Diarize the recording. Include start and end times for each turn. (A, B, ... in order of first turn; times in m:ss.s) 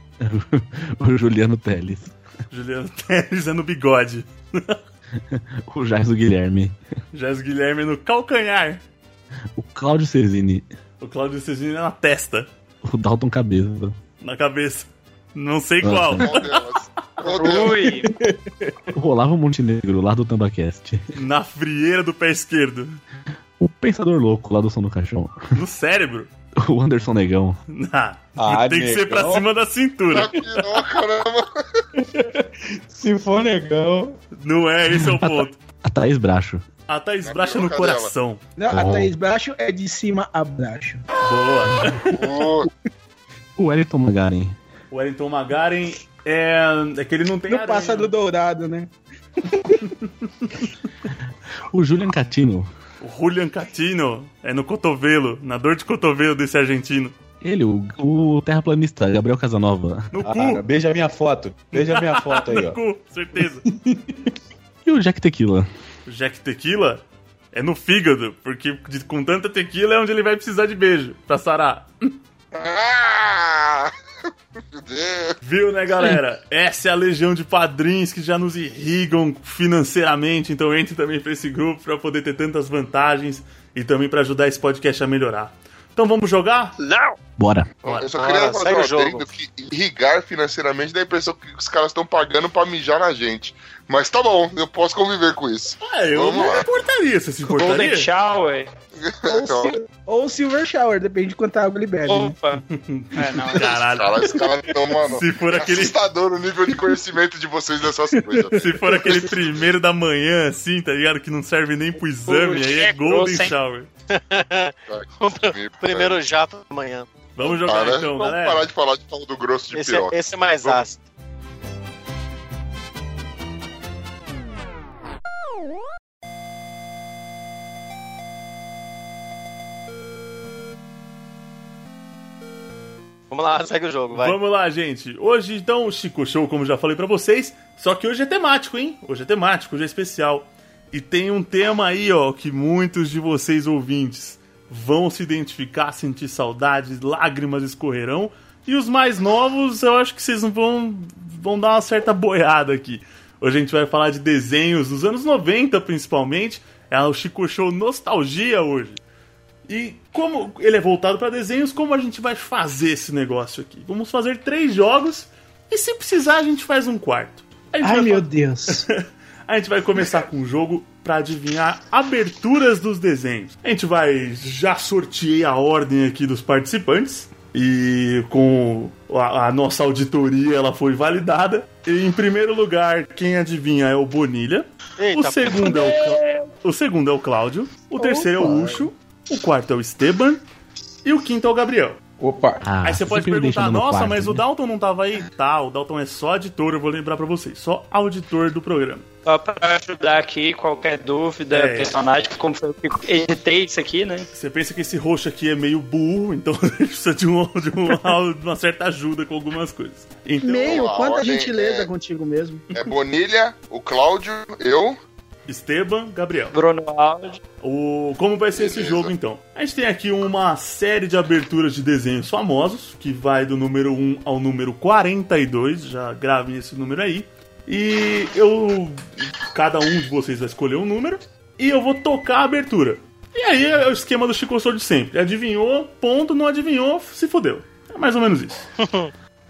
0:00.2-0:02.1 A
0:02.5-0:04.8 B
0:05.3-0:06.8 A
0:07.1-0:08.8 B
0:09.6-0:10.6 A
0:11.0-0:12.5 B
0:12.8-0:13.9 A
0:14.2-0:16.6 B
0:15.8-0:16.3 A
0:16.2-0:17.9 C
0:17.3-0:18.1 D
0:18.0-0:18.3 E
0:19.0-0:21.0 A
0:21.1-0:23.0 B
0:23.6-0:25.4 A
0:25.5-0:26.3 B
0:26.6-0:27.6 A
0:27.7-0:30.3 B
0:28.4-0:29.4 E
0:30.1-0:31.5 C
0:32.2-0:34.1 E
0:34.4-0:35.5 B
0:35.0-0:36.6 A
0:36.9-0:38.4 B
0:37.2-0:38.1 C
0:38.6-0:41.0 F
0:38.7-0:39.1 A
0:41.2-0:42.1 B
0:42.2-0:42.7 C
0:43.6-0:44.6 A
0:44.9-0:48.1 B
0:47.5-0:48.9 F
0:49.4-0:49.8 F
0:51.7-0:52.7 A
0:53.0-0:57.1 B
0:57.4-1:00.1 A
1:00.1-1:00.6 B
1:00.2-1:02.8 E
1:01.7-1:03.6 B
1:04.8-1:05.7 A
1:06.0-1:07.0 B
1:07.5-1:11.9 B
1:12.5-1:13.9 C
1:14.7-1:15.3 C
1:15.4-1:26.7 B
1:27.4-1:27.7 A
1:27.8-1:36.6 C
1:27.8-1:28.1 B
1:28.2-1:29.3 G
1:35.8-1:38.1 B
1:37.4-1:38.7 D
1:39.0-1:39.7 C
1:39.3-1:42.3 F
1:42.0-1:42.6 D
1:42.7-1:44.4 B
1:43.1-1:43.6 D
1:43.7-1:48.6 C
1:45.1-1:45.9 B
1:48.2-1:49.2 F
1:48.6-1:53.9 B
1:52.3-1:53.5 D
1:54.1-1:57.1 G
1:54.9-1:56.2 C
1:57.3-1:58.7 B
1:57.5-2:00.8 C
1:59.7-2:01.0 G
2:13.3-2:14.4 G
2:14.1-2:39.0 B
2:39.7-3:10.4 B
2:47.8-2:48.8 F
3:05.0-3:05.9 G
3:05.6-3:06.5 D
3:08.0-3:08.9 F
3:11.0-3:12.0 B
3:12.2-3:12.6 E
3:12.6-3:14.4 A
3:12.8-3:19.0 B
3:19.2-3:24.3 D
3:21.5-3:21.9 B
3:24.3-3:30.6 B
3:30.4-3:32.6 F
3:30.6-3:31.9 C
3:32.7-3:35.0 C
3:35.5-3:36.6 B
3:36.5-3:37.4 D
3:37.6-3:58.7 B
3:38.6-3:39.1 C
3:58.8-3:59.1 G